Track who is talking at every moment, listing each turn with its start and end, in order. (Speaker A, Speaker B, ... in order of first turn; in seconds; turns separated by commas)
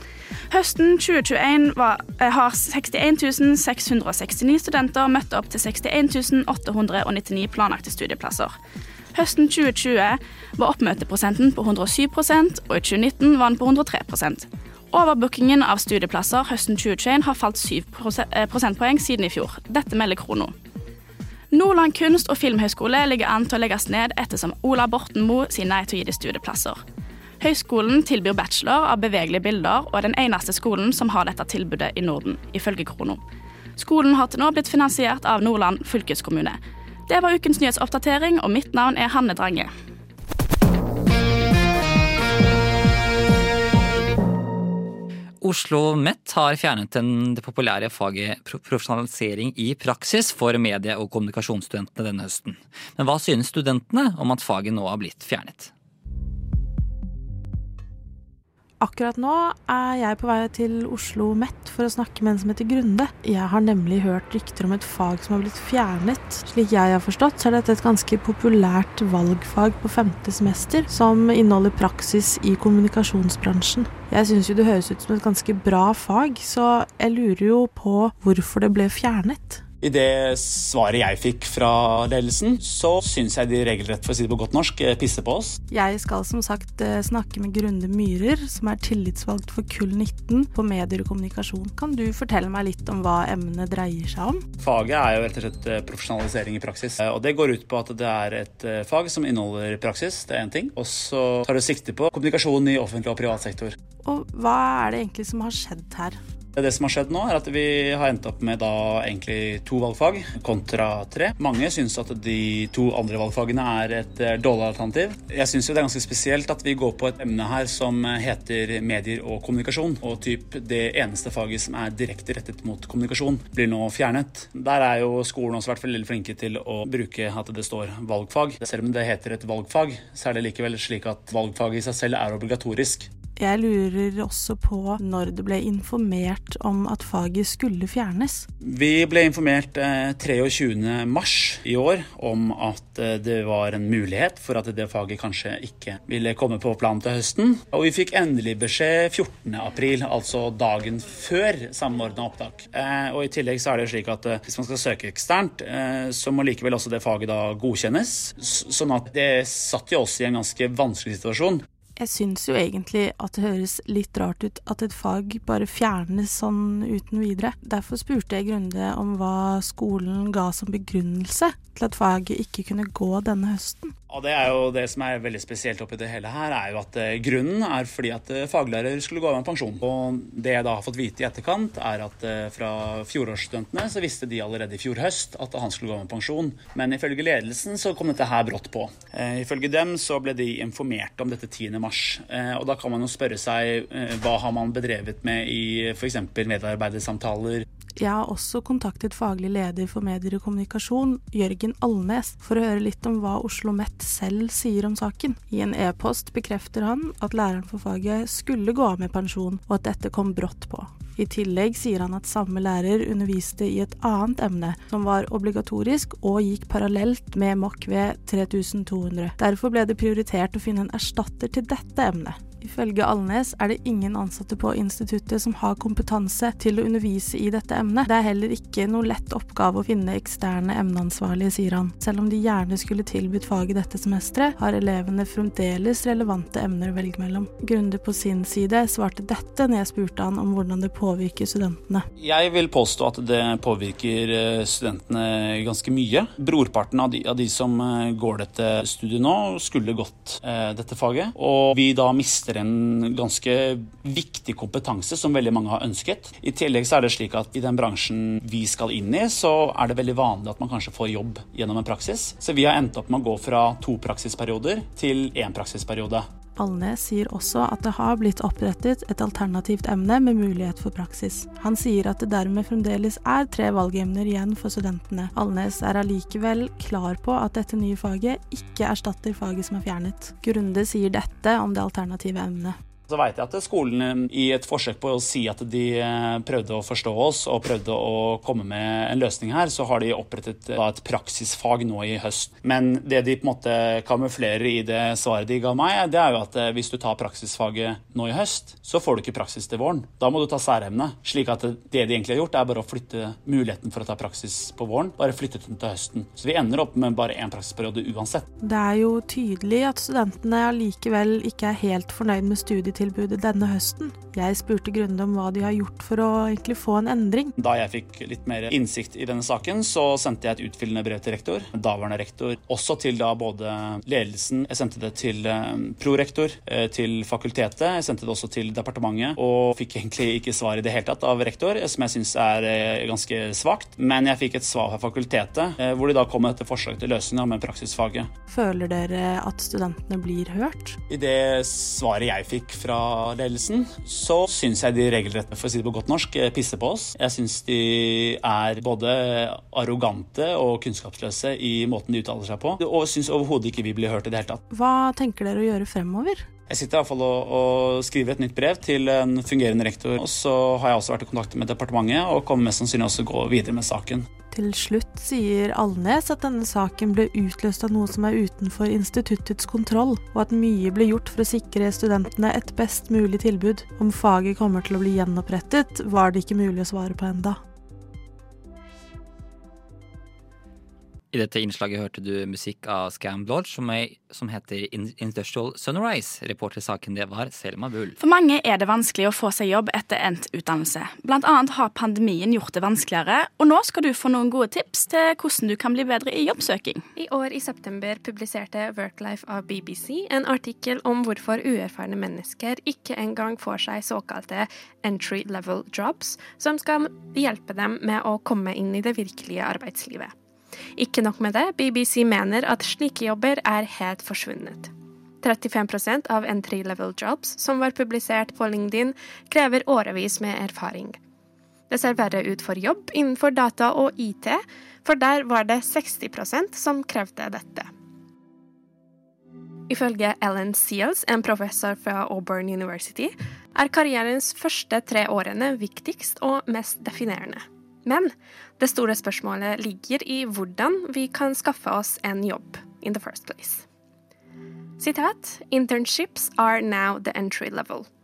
Speaker A: 0.5-8.5, Speaker A: 9.1-20.5, Speaker A: 21.5-26.8, Speaker A: 27.4-33.2, Speaker A: 33.8-39.7, Speaker B: 45.4-55.7, Speaker C: 58.8-79.6, Speaker D: 79.8-85.6, Speaker C: 85.7-94.4, Speaker D: 94.6-103.7, Speaker C: 104.0-106.2, Speaker D: 106.5-133.1, Speaker C: 133.4-138.5, Speaker D: 138.6-161.6, Speaker C: 162.0-173.9, Speaker D: 174.1-197.7, Speaker C: 198.0-242.0, Speaker D: 242.2-266.2, Speaker C: 266.6-282.8, Speaker D: 283.1-308.4, Speaker C: 308.6-317.5, Speaker D: 317.6-338.3, Speaker C: 338.5-341.0, Speaker D: 341.1-354.6, Speaker C: 354.7-356.5, Speaker D: 356.7-364.2, Speaker C: 364.5-377.6, Speaker B: 381.3-388.2, Speaker A: 388.2-397.0, Speaker E: 397.2-410.3, Speaker E: 411.0-414.9, Speaker E: 415.4-421.2, Speaker E: 421.9-427.9, Speaker E: 429.9-443.8, Speaker E: 445.0-448.1